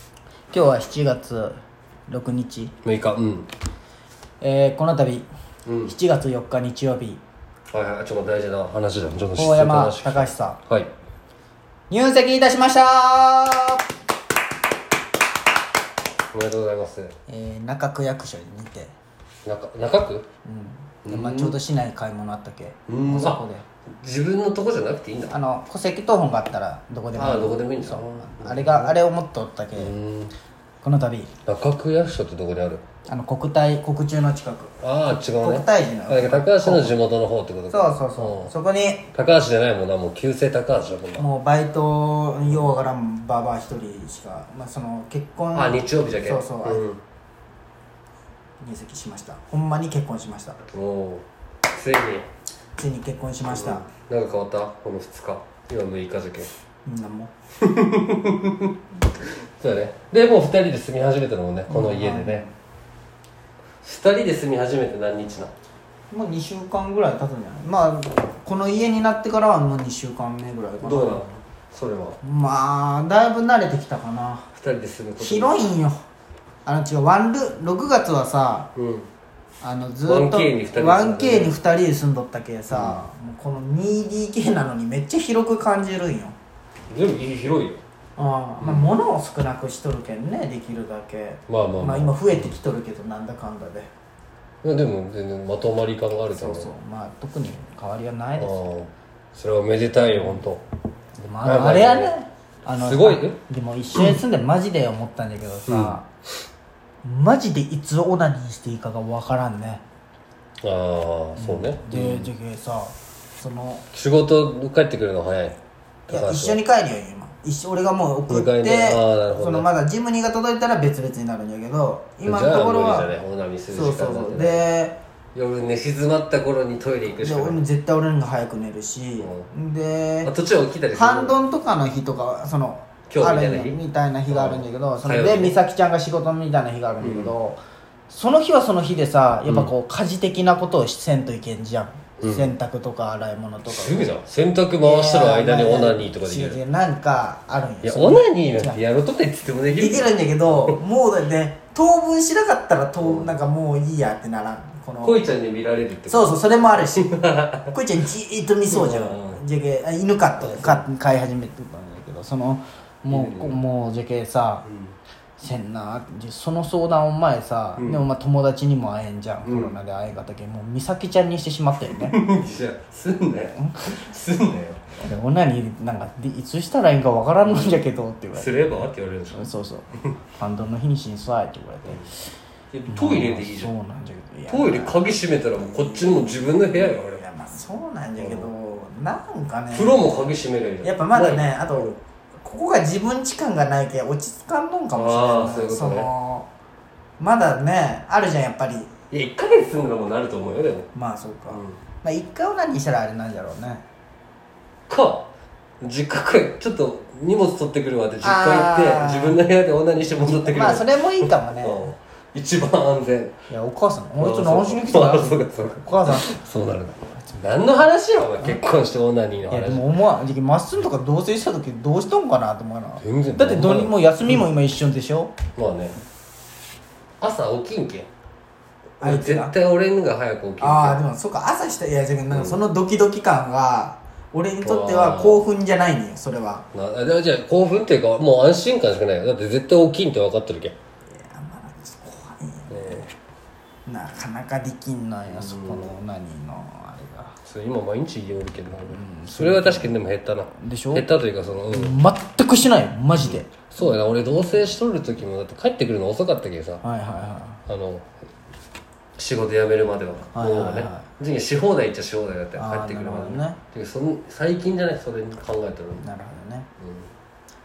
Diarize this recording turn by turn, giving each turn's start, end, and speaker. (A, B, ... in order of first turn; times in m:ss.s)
0:00.5-0:02.7 A
0:02.8-0:03.5 B
0:04.4-0:05.3 A
0:05.6-0:05.9 B
0:05.9-0:07.2 A
0:07.7-0:10.9 B
0:09.4-0:10.6 A
0:11.9-0:13.8 A
0:16.3-0:17.2 B
0:17.3-0:18.9 A
0:19.5-0:20.3 B
0:20.4-0:23.6 A
0:21.0-0:21.6 B
0:22.9-0:23.4 B
0:24.0-0:25.4 B
0:25.3-0:29.9 A
0:27.1-0:28.9 B
0:29.8-0:30.3 B
0:30.8-0:31.4 A
0:31.4-0:32.9 B
0:33.1-0:37.0 A
0:34.8-0:38.5 B
0:37.7-0:39.1 A
0:39.1-0:41.3 B
0:41.2-0:46.8 A
0:45.5-0:47.0 B
0:48.6-0:50.6 A
0:50.7-0:52.3 B
0:52.8-0:53.9 A
0:53.5-0:56.5 B
0:56.9-0:57.3 A
0:57.6-1:02.4 B
1:01.7-1:02.5 A
1:03.8-1:05.5 B
1:06.1-1:11.2 A
1:10.8-1:12.2 B
1:12.2-1:14.5 A
1:14.5-1:15.6 B
1:15.2-1:16.0 A
1:16.7-1:18.7 A
1:18.8-1:19.1 B
1:19.6-1:26.4 A
1:20.1-1:21.6 B
1:22.7-1:23.0 B
1:26.9-1:27.8 B
1:28.2-1:33.9 A
1:28.6-1:29.0 B
1:31.5-1:32.6 B
1:34.6-1:36.7 B
1:36.3-1:38.7 A
1:38.4-1:40.6 B
1:41.2-1:46.1 A
1:41.4-1:42.2 B
1:42.7-1:43.4 B
1:45.7-1:46.0 B
1:47.0-1:49.8 A
1:50.6-1:52.3 B
1:51.4-1:53.8 A
1:53.9-1:56.6 B
1:56.1-2:03.1 A
1:58.3-1:59.7 B
2:02.2-2:04.7 B
2:03.7-2:05.0 A
2:05.4-2:07.6 B
2:07.1-2:10.3 A
2:09.2-2:09.5 B
2:10.2-2:11.4 B
2:10.9-2:24.1 A
2:13.1-2:13.8 B
2:14.3-2:15.6 B
2:17.0-2:17.3 B
2:19.4-2:19.7 B
2:22.2-2:22.5 B
2:23.6-2:26.6 B
2:24.8-2:28.8 A
2:27.8-2:30.8 B
2:29.7-2:35.3 A
2:33.0-2:33.3 B
2:35.0-2:37.7 B
2:36.1-2:44.6 A
2:38.7-2:39.4 B
2:40.4-2:40.9 B
2:43.1-2:43.6 B
2:44.6-2:45.0 B
2:45.4-2:52.2 A
2:47.8-2:48.0 B
2:49.4-2:49.8 B
2:52.0-2:54.9 B
2:53.6-2:54.0 A
2:55.0-2:58.8 A
2:57.5-2:57.7 B
2:58.3-2:59.5 B
2:59.3-3:02.2 A
3:02.7-3:03.7 B
3:02.9-3:05.0 A
3:04.5-3:07.2 B
3:05.6-3:10.2 A
3:08.2-3:08.5 B
3:09.7-3:11.9 B
3:10.8-3:16.5 A
3:14.9-3:16.1 B
3:17.2-3:18.9 A
3:19.1-3:20.9 B
3:20.9-3:23.8 A
3:21.5-3:21.8 B
3:24.9-3:25.3 B
3:25.8-3:33.4 B
3:28.2-3:29.4 A
3:30.2-3:31.9 A
3:33.5-3:36.4 A
3:34.2-3:39.9 B
3:39.5-3:45.4 A
3:43.0-3:44.4 B
3:45.6-3:46.0 B
3:47.2-3:48.1 B
3:49.0-3:51.0 B
3:49.0-3:49.5 A
3:50.6-3:56.7 A
3:52.3-3:52.6 B
3:54.6-3:55.4 B
3:56.7-4:00.8 B
4:01.2-4:03.1 A
4:02.7-4:03.1 B
4:03.9-4:07.4 A
4:05.3-4:06.0 B
4:07.4-4:12.0 B
4:08.9-4:10.0 A
4:10.5-4:11.1 A
4:11.7-4:13.7 A
4:13.2-4:16.8 B
4:16.8-4:17.6 A
4:17.7-4:18.1 B
4:19.2-4:26.0 B
4:20.3-4:21.1 A
4:22.6-4:23.6 A
4:26.0-4:26.7 A
4:26.8-4:27.1 B